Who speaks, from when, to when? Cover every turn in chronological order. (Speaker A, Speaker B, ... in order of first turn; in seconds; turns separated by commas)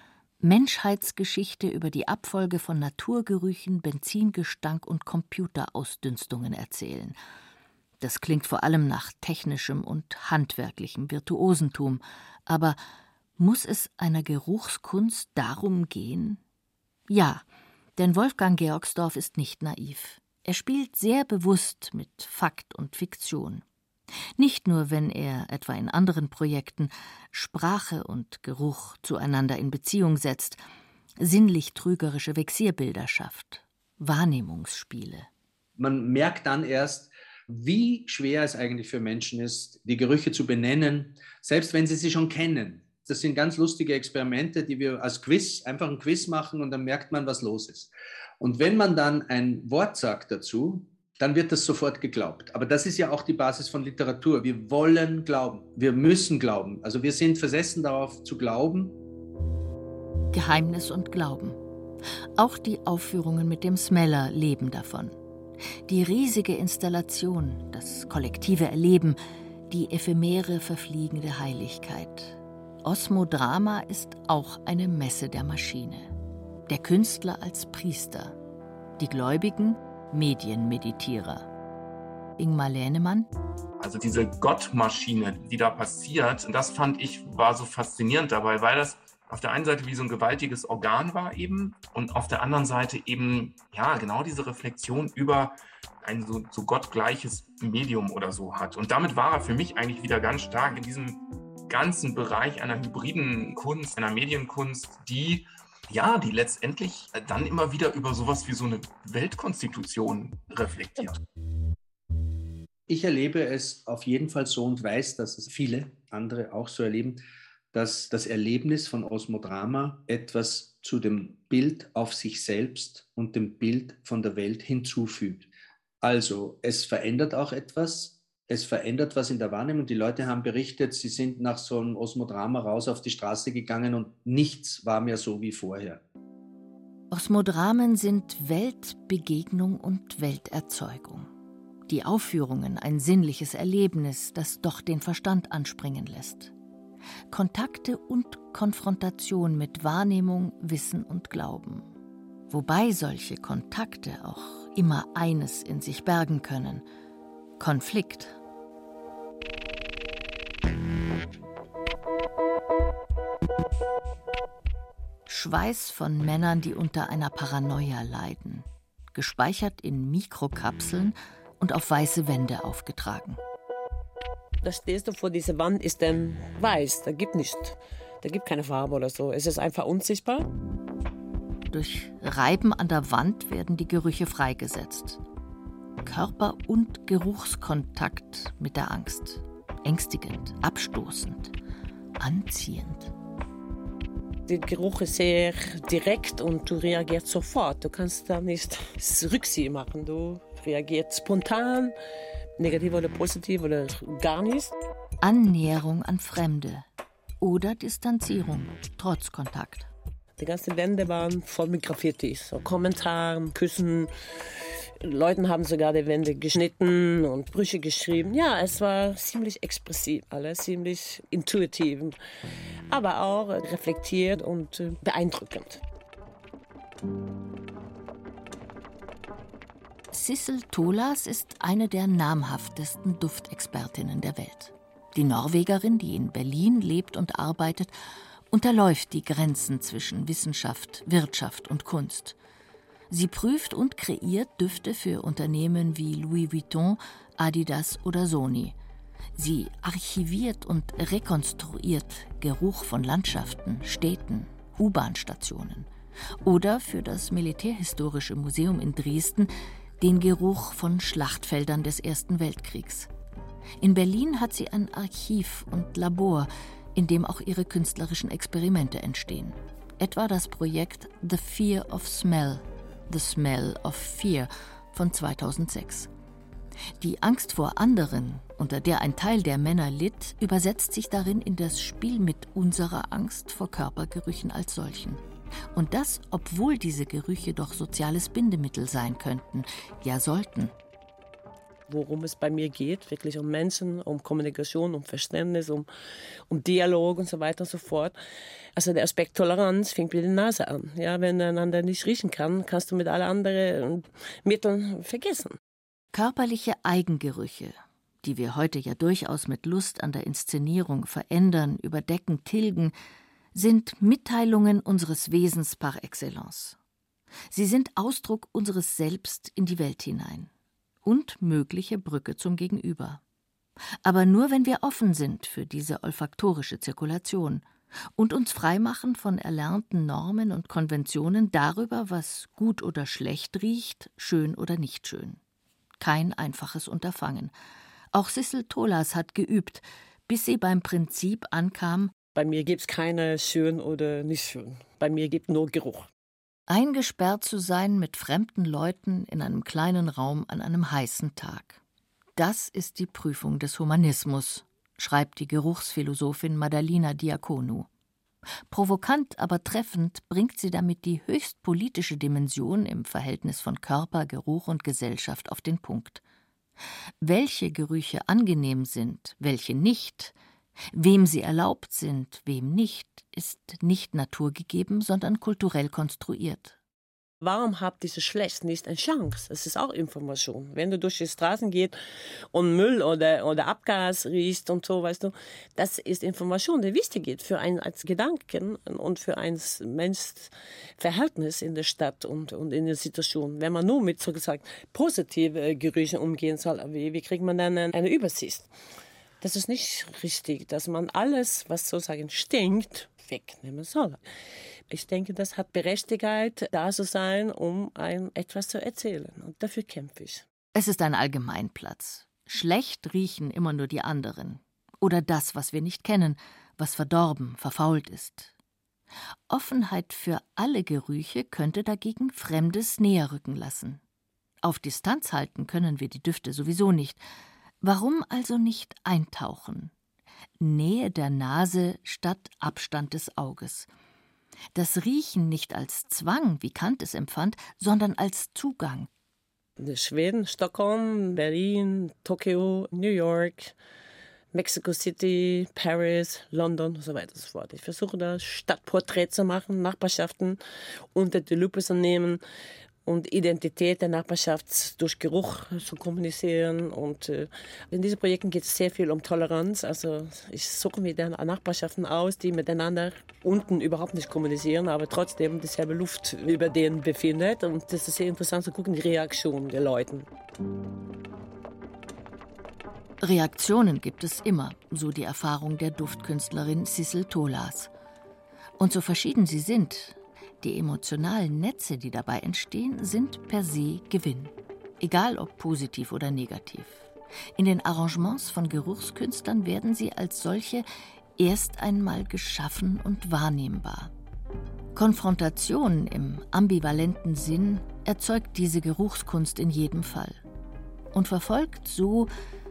Speaker A: 0.4-7.2, Speaker A: 8.0-12.8, Speaker A: 13.4-16.4, Speaker A: 17.1-17.4, Speaker A: 18.0-23.6, Speaker A: 24.4-30.6, Speaker A: 31.2-35.3, Speaker B: 35.8-58.9, Speaker A: 60.3-61.6, Speaker A: 62.4-65.2, Speaker A: 65.9-76.1, Speaker A: 76.7-78.4, Speaker A: 79.0-81.5, Speaker A: 82.4-83.3, Speaker C: 83.8-111.2, Speaker B: 112.9-117.2, Speaker B: 117.7-125.5, Speaker B: 126.0-136.0, Speaker A: 137.1-141.3, Speaker A: 141.9-146.5, Speaker A: 147.3-151.9, Speaker A: 152.5-156.8, Speaker A: 157.6-158.4, Speaker A: 165.3-173.4, Speaker D: 174.6-180.5, Speaker A: 181.7-185.2, Speaker A: 186.0-191.5, Speaker A: 192.2-193.1, Speaker D: 194.5-201.9, Speaker D: 202.6-204.7, Speaker A: 205.2-206.9, Speaker A: 207.4-209.9, Speaker D: 210.4-222.2, Speaker D: 222.9-225.8, Speaker A: 230.1-237.9, Speaker A: 238.5-242.4, Speaker A: 243.1-248.8, Speaker A: 249.4-255.9, Speaker A: 256.4-263.1, Speaker A: 263.8-276.1, Speaker A: 277.0-285.2, Speaker A: 285.7-290.7, Speaker D: 291.9-295.9, Speaker D: 296.5-298.1, Speaker D: 298.8-305.6, Speaker A: 306.1-312.9, Speaker A: 313.5-316.8, Speaker A: 317.5-320.5, Speaker A: 321.0-323.2, Speaker A: 324.0-335.4, Speaker A: 336.0-337.5, Speaker A: 338.1-342.1, Speaker D: 342.4-346.1, Speaker A: 346.7-351.8, Speaker A: 352.4-357.9, Speaker A: 358.7-366.2, Speaker A: 367.2-370.4, Speaker A: 370.9-376.8, Speaker D: 377.4-382.0, Speaker D: 382.5-398.7, Speaker D: 399.4-404.2, Speaker D: 404.9-410.4, Speaker A: 410.7-418.5, Speaker A: 419.5-424.0, Speaker A: 424.6-427.2, Speaker A: 427.8-429.9, Speaker A: 430.6-433.9, Speaker A: 434.7-439.1, Speaker D: 439.8-443.8, Speaker D: 444.5-450.6, Speaker D: 451.1-452.4, Speaker D: 453.1-470.3, Speaker A: 473.2-477.9, Speaker A: 478.8-490.9, Speaker A: 491.4-494.1, Speaker A: 494.9-500.4, Speaker A: 501.1-502.3